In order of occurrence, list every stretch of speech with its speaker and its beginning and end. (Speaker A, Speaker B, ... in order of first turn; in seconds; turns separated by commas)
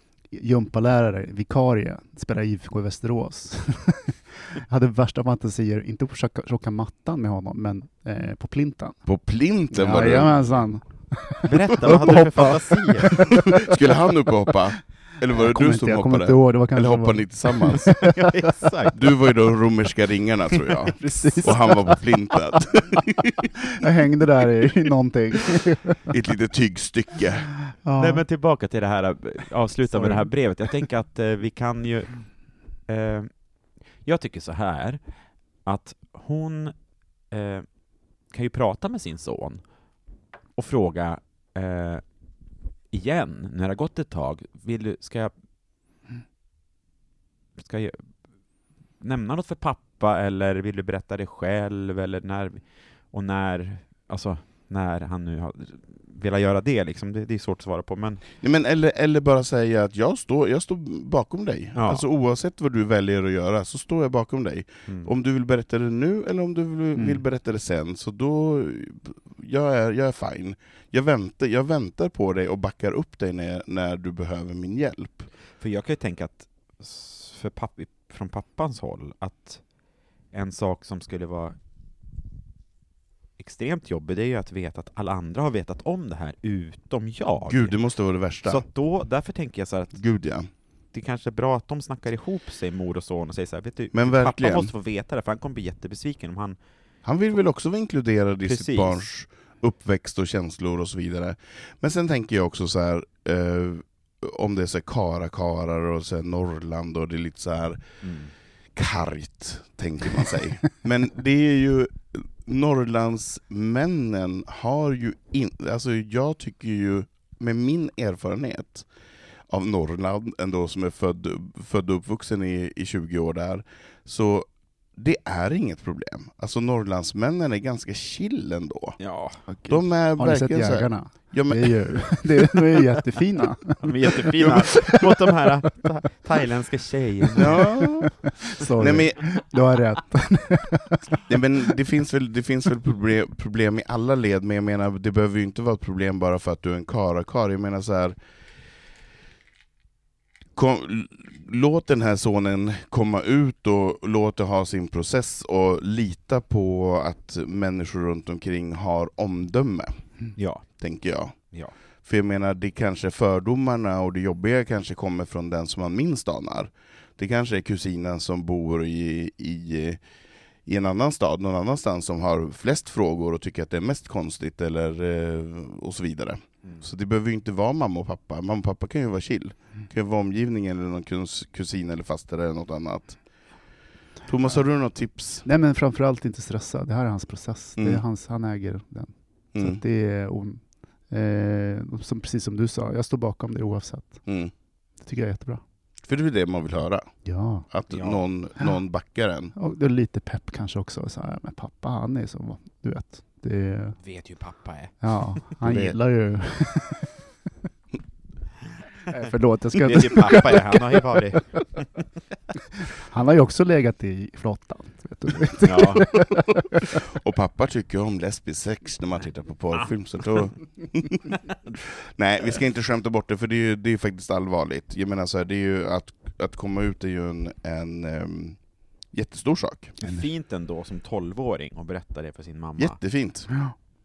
Speaker A: 0.3-9.0, Speaker B: 9.1-10.4, Speaker A: 9.7-13.8, Speaker C: 11.4-13.3, Speaker B: 13.3-18.0, Speaker A: 15.3-18.3, Speaker C: 18.1-19.0, Speaker B: 18.9-23.5, Speaker A: 21.0-22.0, Speaker C: 21.2-21.5, Speaker A: 23.6-26.0, Speaker B: 26.1-27.5, Speaker A: 27.9-28.2, Speaker C: 28.0-32.3, Speaker A: 29.9-30.3, Speaker C: 32.9-33.3, Speaker C: 34.0-35.0, Speaker C: 35.6-36.7, Speaker C: 37.3-37.7, Speaker C: 38.3-39.6, Speaker C: 40.6-42.0, Speaker C: 42.9-45.3, Speaker C: 47.6-48.0, Speaker C: 49.0-58.2, Speaker B: 58.4-75.3, Speaker C: 61.8-62.0, Speaker A: 67.0-67.2, Speaker C: 75.6-79.6, Speaker C: 80.3-81.5, Speaker C: 83.4-87.8, Speaker B: 87.5-88.7, Speaker C: 88.5-90.0, Speaker B: 90.0-90.5, Speaker C: 90.9-96.6, Speaker B: 93.9-94.7, Speaker B: 97.0-107.8, Speaker C: 98.5-99.0, Speaker C: 108.0-108.3, Speaker B: 108.8-118.9, Speaker B: 119.5-129.0, Speaker C: 129.0-129.4, Speaker A: 129.5-133.9, Speaker B: 129.7-132.3, Speaker C: 133.8-137.7, Speaker B: 134.4-134.7, Speaker A: 134.4-135.0, Speaker B: 137.4-138.2, Speaker A: 137.4-141.2, Speaker B: 138.8-139.4, Speaker B: 141.3-148.2, Speaker B: 150.6-160.0, Speaker C: 160.4-160.7, Speaker B: 160.8-161.4, Speaker B: 162.0-170.0, Speaker B: 170.7-183.2, Speaker B: 184.3-185.5, Speaker A: 185.4-194.2, Speaker B: 187.8-188.0, Speaker B: 189.5-189.8, Speaker B: 194.3-194.5, Speaker A: 195.0-195.6, Speaker B: 196.1-197.1, Speaker A: 197.2-197.7, Speaker B: 197.7-199.5, Speaker C: 197.9-198.2, Speaker A: 199.6-204.0, Speaker C: 204.0-205.2, Speaker A: 205.0-207.1, Speaker B: 205.6-206.0, Speaker A: 209.1-211.3, Speaker C: 209.8-211.9, Speaker A: 212.9-217.0, Speaker C: 215.6-216.2, Speaker B: 217.1-228.6, Speaker B: 229.1-229.9, Speaker C: 230.0-233.0, Speaker B: 232.8-233.5